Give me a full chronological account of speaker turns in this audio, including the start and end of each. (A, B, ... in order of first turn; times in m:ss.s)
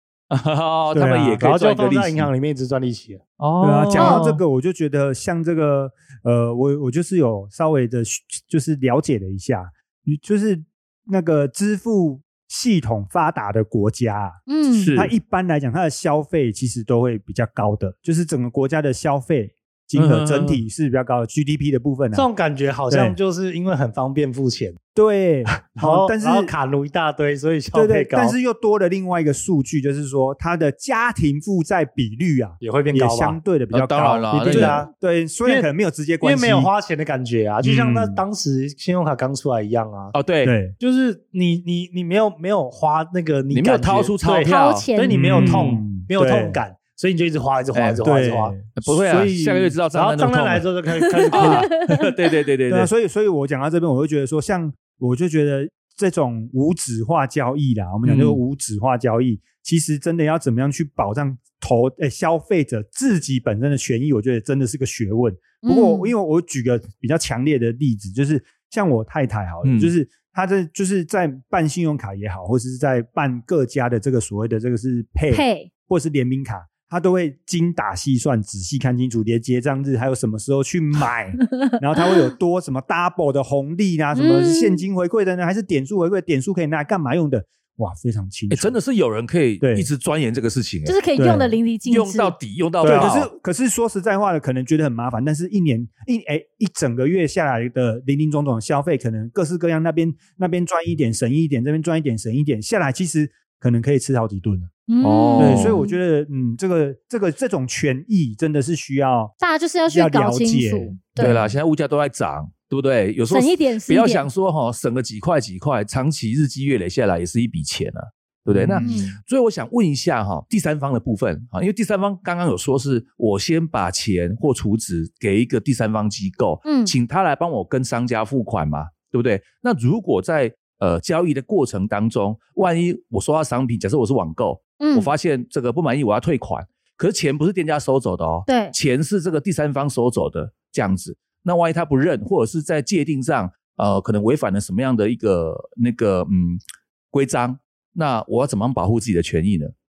0:00.3-0:02.3 A
0:00.9-0:01.4 B
0:01.4-0:03.2 C
0:03.4-0:04.3 A
0:03.6-0:14.4 B
0:04.0-0:04.3 D
0:14.5-0:14.9 D
0:14.7-0:15.1 A
0:15.0-0:22.3 B
0:20.0-0:20.6 A
0:22.1-0:24.8 C
0:22.9-0:23.2 B
0:25.0-0:26.5 B
0:25.6-0:28.4 C
0:27.7-0:36.7 B
0:32.6-0:33.4 C
0:33.7-0:34.8 A
0:34.4-0:34.9 C
0:36.2-0:40.2 C
0:37.6-0:38.2 B
0:40.1-0:40.6 A
0:40.4-0:40.8 B
0:40.8-0:48.6 C
0:43.5-0:44.9 A
0:44.4-0:45.5 D
0:45.1-0:46.6 B
0:47.7-0:48.0 A
0:48.0-0:49.8 B
0:48.8-0:50.7 A
0:49.9-0:51.7 C
0:51.3-0:51.9 D
0:51.3-0:52.9 A
0:52.7-1:28.8 B
0:58.0-0:58.4 A
1:05.6-1:06.1 D
1:09.6-1:09.9 A
1:15.3-1:15.7 D
1:21.5-1:22.3 D
1:24.2-1:24.9 D
1:28.5-1:31.0 A
1:29.6-1:29.9 B
1:30.8-1:32.4 D
1:31.2-1:31.6 B
1:31.9-1:33.3 A
1:32.8-1:33.2 C
1:32.8-1:44.7 B
1:44.9-1:46.0 D
1:45.0-1:45.8 A
1:45.4-1:49.3 B
1:49.4-1:51.5 D
1:49.9-1:51.4 B
1:51.2-2:26.6 A
1:53.3-1:54.3 D
1:58.5-1:59.1 B
1:58.8-1:59.1 D
2:06.6-2:06.9 D
2:14.8-2:15.1 D
2:18.5-2:18.7 D
2:27.1-2:29.7 A